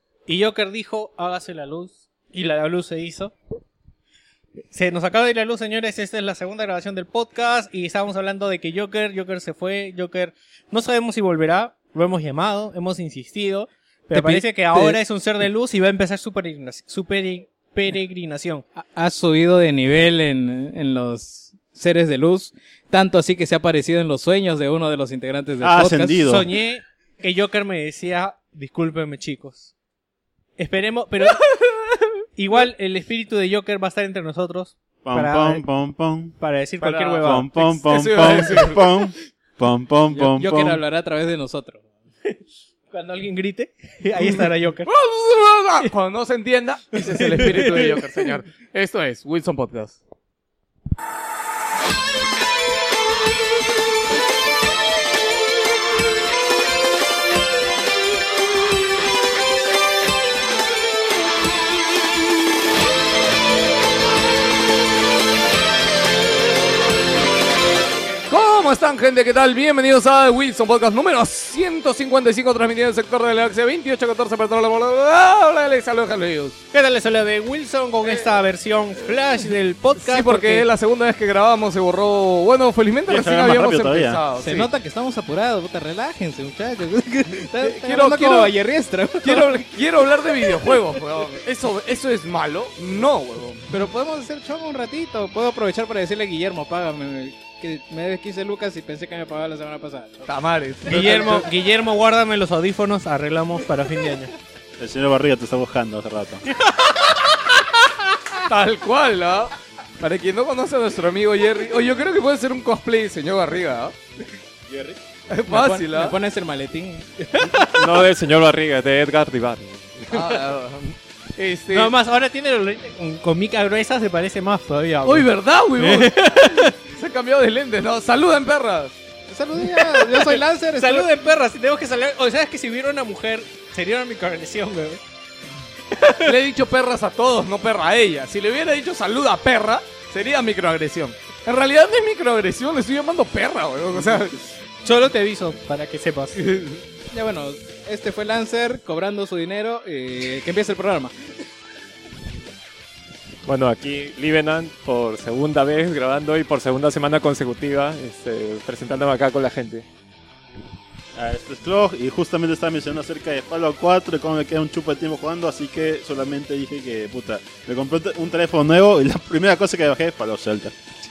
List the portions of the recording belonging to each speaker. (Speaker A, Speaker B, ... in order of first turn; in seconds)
Speaker A: 0.3-3.3, 4.7-18.6, 26.2-29.7, 30.6-35.6, 36.4-38.2, 42.9-44.9, 47.0-48.2, 76.7-80.7, 100.9-104.3, 121.7-126.7, 129.5-135.0, 135.9-136.3, 144.8-146.4
Speaker B: 14.1-15.0, 18.8-26.2, 40.1-41.9, 84.4-89.6, 93.7-100.3, 115.5-118.0, 129.3-131.1, 147.1-151.1
Speaker C: 25.6-26.5, 35.0-36.4, 37.1-40.8, 83.1-84.2, 104.8-106.4, 114.7-115.0, 161.1-170.7
Speaker D: 37.9-38.8, 44.8-50.0, 68.3-76.5, 80.0-84.7, 87.6-88.5, 89.2-93.7, 100.3-101.5, 108.4-114.0, 115.3-116.1, 120.1-121.9, 125.0-128.9, 136.1-144.4, 146.4-146.8
Speaker E: 117.5-120.3, 153.4-159.8